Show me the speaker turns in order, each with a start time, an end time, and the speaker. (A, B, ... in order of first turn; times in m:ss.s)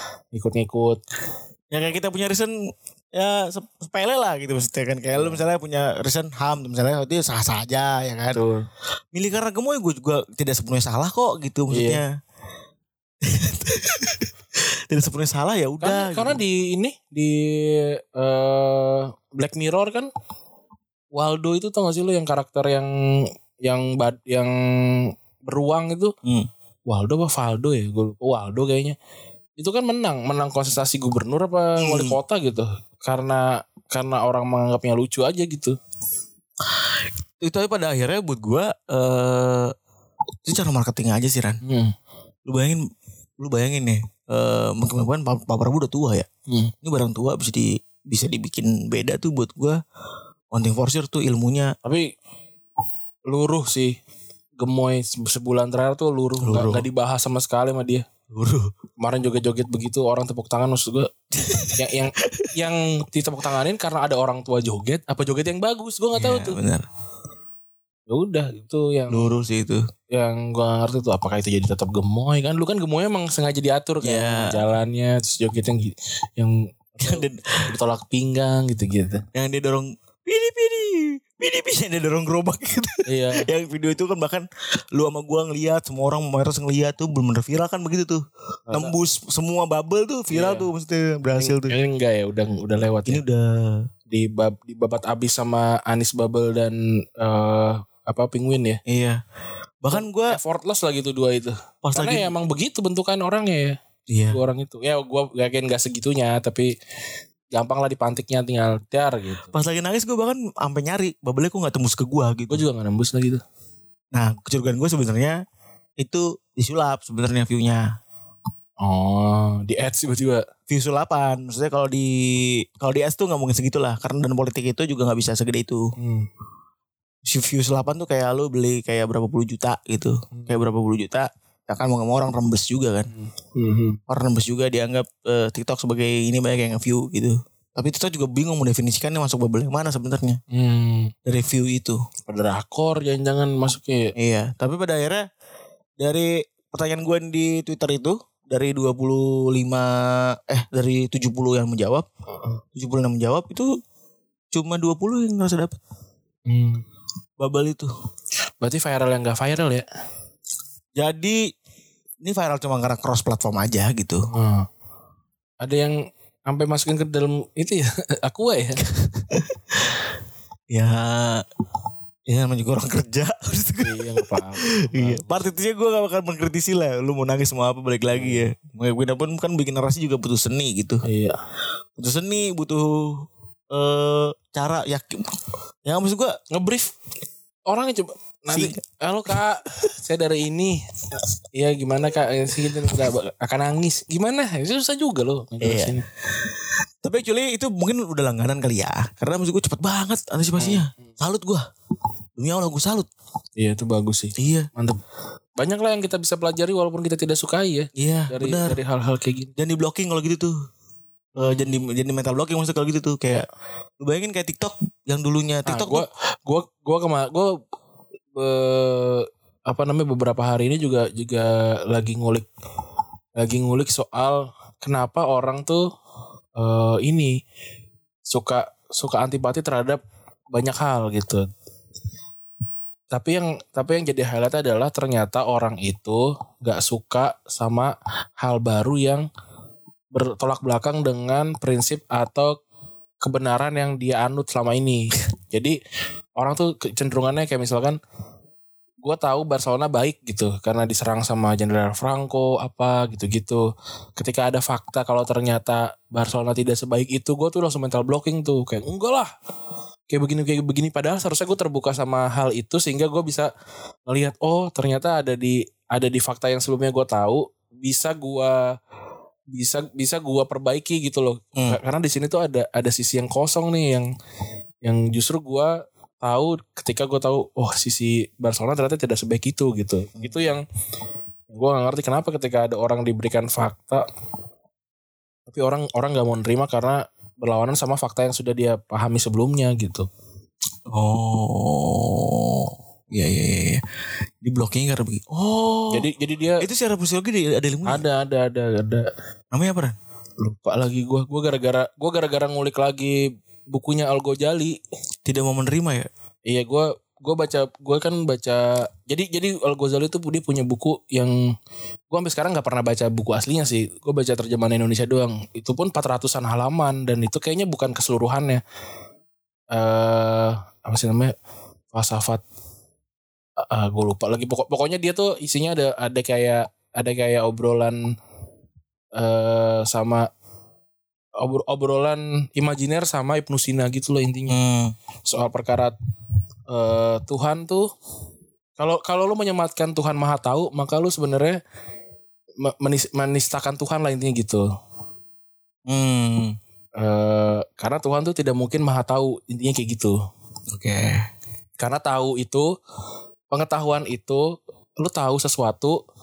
0:00.3-0:01.0 A
0:01.7-0:02.5 B
0:03.2-0:08.4 B
0:05.2-0:05.4 A
0:08.3-0:08.6 A
0:09.1-0:12.1 B
0:11.7-0:12.0 A
0:13.2-0:14.3 B
0:14.9-0:16.4 B
0:15.8-0:20.1 A
0:21.1-0:22.9 A
0:23.6-0:26.1 A
0:26.2-0:26.5 B
0:26.9-0:29.0 A
0:29.6-0:35.8 A
0:31.8-0:32.2 B
0:36.6-0:39.7 B
0:40.4-0:41.6 B
0:41.6-0:41.9 A
0:42.5-0:42.8 B
0:43.4-0:46.3 B
0:46.8-0:49.8 B
0:50.5-0:51.7 B
0:51.8-0:52.1 A
0:53.3-0:54.0 A
0:54.6-0:58.0 A
0:56.4-0:56.9 B
0:58.3-0:58.7 B
0:59.0-1:01.1 A
1:01.3-1:02.5 B
1:01.8-1:06.6 A
1:06.1-1:06.9 B
1:08.1-1:09.3 A
1:09.1-1:09.8 B
1:10.1-1:19.2 A
1:14.0-1:14.6 B
1:17.0-1:17.7 B
1:19.3-1:31.8 B
1:23.1-1:23.5 A
1:28.7-1:28.9 A
1:30.3-1:30.7 A
1:31.4-1:33.2 A
1:33.1-1:33.9 B
1:34.1-1:38.8 A
1:38.9-1:39.2 B
1:39.8-1:40.4 B
1:39.9-1:43.8 A
1:41.8-1:42.3 B
1:44.1-1:44.4 B
1:44.3-1:46.7 A
1:47.5-1:49.6 A
1:49.5-1:52.6 B
1:52.5-1:53.4 A
1:54.1-1:55.4 B
1:56.0-1:57.9 B
1:58.8-2:00.4 A
2:00.7-2:05.8 B
2:06.0-2:06.3 A
2:07.3-2:13.1 B
2:10.3-2:10.6 A
2:13.1-2:14.0 A
2:14.1-2:20.4 B
2:20.5-2:21.1 A
2:21.3-2:22.0 B
2:22.3-2:24.1 A
2:24.2-2:25.2 B
2:26.0-2:32.1 B
2:32.8-2:33.7 B
2:34.5-2:35.8 B
2:36.5-2:36.8 A
2:37.4-2:37.9 B
2:38.6-2:39.8 A
2:41.0-2:41.4 B
2:42.2-2:44.3 B
2:44.3-2:44.7 A
2:45.6-2:48.8 A
2:49.3-2:50.0 B
2:50.7-2:51.4 B
2:52.3-3:01.0 B
2:53.8-2:55.3 A
2:58.1-2:58.5 A
3:01.0-3:01.4 A
3:02.0-3:06.4 B
3:06.5-3:06.9 A
3:07.7-3:10.8 A
3:08.5-3:08.8 B
3:11.6-3:16.0 A
3:15.6-3:21.6 B
3:20.6-3:21.0 A
3:22.4-3:23.1 B
3:23.6-3:25.0 A
3:24.4-3:24.7 B
3:25.6-3:29.5 A
3:28.0-3:28.8 B
3:29.6-3:30.5 B
3:31.4-3:31.8 A
3:31.4-3:33.5 B
3:34.0-3:36.0 B
3:35.7-3:37.6 A
3:38.4-3:42.5 A
3:43.4-3:45.8 A
3:46.6-3:47.4 A
3:48.3-3:50.0 A
3:50.5-3:51.5 A
3:53.1-3:59.3 A
4:00.1-4:02.6 A
4:03.2-4:05.8 A
4:06.4-4:08.0 A
4:09.0-4:13.7 A
4:14.2-4:19.3 A
4:20.1-4:23.5 A
4:24.1-4:28.6 A
4:29.5-4:34.1 A
4:34.8-4:40.6 A
4:40.2-4:40.4 B
4:41.5-4:44.0 A
4:45.5-4:50.1 A
4:50.9-4:53.8 B
4:54.4-4:56.1 B
4:55.9-4:56.7 A
4:56.6-4:58.0 B
4:57.9-4:59.1 A
4:59.5-5:00.0 B
5:00.4-5:04.8 A
5:05.2-5:06.1 B
5:06.5-5:11.4 A
5:12.1-5:18.6 A
5:19.7-5:21.4 A
5:21.9-5:22.4 A
5:23.6-5:28.0 A
5:29.2-5:30.3 A
5:31.4-5:34.6 A
5:34.5-5:34.9 B
5:35.2-5:36.0 A
5:36.7-5:37.9 A
5:38.8-5:41.6 A
5:42.6-5:44.7 A
5:45.9-5:46.6 B
5:47.0-5:50.2 A
5:50.7-5:51.2 B
5:51.8-5:52.7 A
5:53.5-5:56.0 A